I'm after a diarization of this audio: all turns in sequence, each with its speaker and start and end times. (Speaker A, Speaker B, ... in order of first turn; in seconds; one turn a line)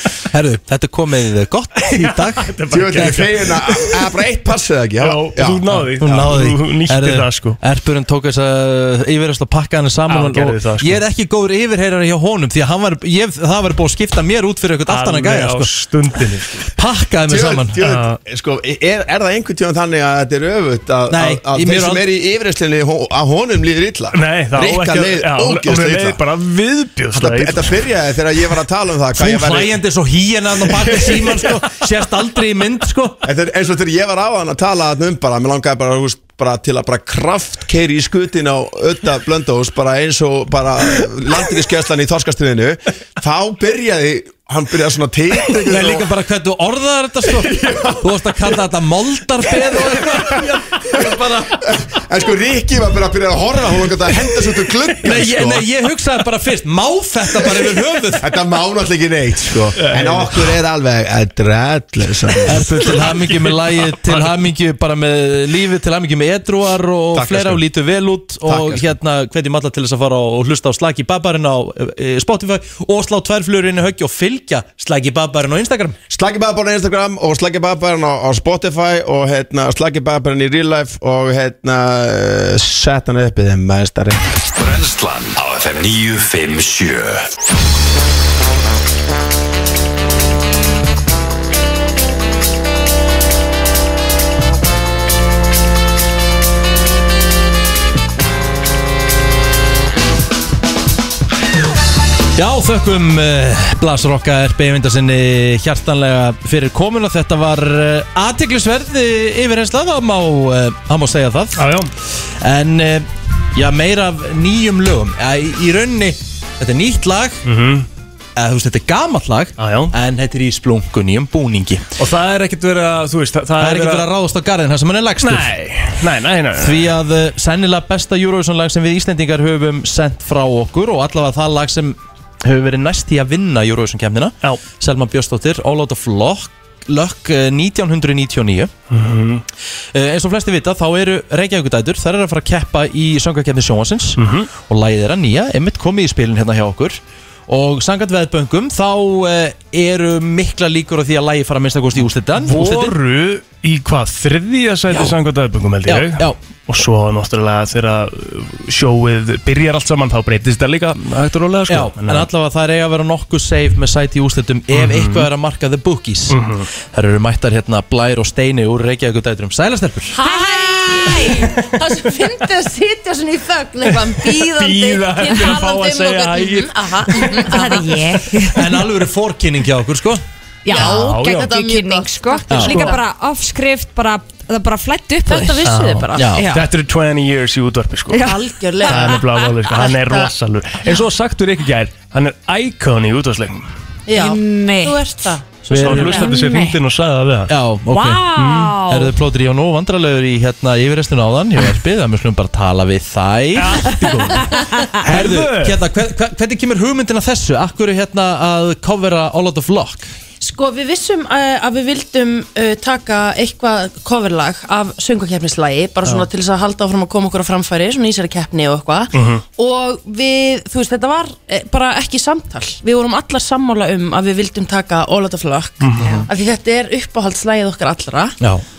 Speaker A: 0.3-3.2
Speaker B: 1.8-3.8
Speaker C: 2.7-5.8
Speaker B: 5.0-7.6
Speaker A: 5.8-15.7
Speaker B: 10.1-11.0
Speaker B: 14.9-16.7
Speaker A: 16.8-17.8
Speaker C: 17.3-26.2
Speaker B: 17.8-18.2
Speaker A: 21.1-22.1
Speaker B: 24.1-27.8
Speaker C: 27.1-29.8
Speaker A: 29.2-33.2
Speaker C: 30.6-31.5
Speaker C: 33.2-46.1
Speaker A: 45.7-51.6
Speaker C: 47.3-48.6
Speaker C: 49.9-50.4
Speaker C: 51.5-55.7
Speaker A: 55.0-58.3
Speaker C: 58.2-62.7
Speaker B: 59.8-60.3
Speaker A: 62.5-76.0
Speaker B: 62.6-64.3
Speaker C: 67.1-67.6
Speaker C: 68.5-69.0
Speaker C: 76.1-84.2
Speaker D: 84.6-87.3
Speaker A: 102.4-111.7
Speaker B: 111.6-111.9
Speaker A: 112.4-117.4
Speaker B: 117.4-117.9
Speaker A: 118.4-121.9
Speaker B: 119.6-119.9
Speaker B: 122.0-124.1
Speaker A: 123.6-125.5
Speaker B: 125.2-126.9
Speaker A: 126.6-138.7
Speaker B: 138.9-139.4
Speaker A: 139.9-152.9
Speaker B: 144.2-144.5
Speaker B: 152.4-162.3
Speaker A: 155.9-156.4
Speaker A: 161.7-170.2
Speaker B: 164.7-165.3
Speaker B: 166.3-166.7
Speaker E: 170.1-178.0
Speaker F: 170.2-171.5
Speaker B: 174.5-177.3
Speaker F: 177.5-178.8
Speaker A: 178.5-180.2
Speaker F: 180.7-185.6
Speaker E: 180.7-183.0
Speaker B: 180.7-181.5
Speaker A: 182.5-182.8
Speaker B: 182.7-182.9
Speaker E: 185.2-186.5
Speaker B: 185.7-188.2
Speaker A: 186.1-186.5
Speaker F: 186.4-186.7
Speaker F: 188.1-188.4
Speaker E: 188.1-190.3
Speaker B: 188.9-193.7
Speaker E: 194.1-196.4
Speaker F: 194.2-195.0
Speaker A: 195.7-196.2
Speaker B: 195.7-197.5
Speaker F: 196.2-196.8
Speaker A: 197.5-198.3
Speaker F: 197.9-199.1
Speaker B: 198.3-198.8
Speaker A: 198.9-210.1
Speaker B: 203.6-205.8
Speaker E: 210.4-228.4
Speaker B: 219.1-219.4
Speaker B: 225.8-226.2
Speaker F: 226.0-226.3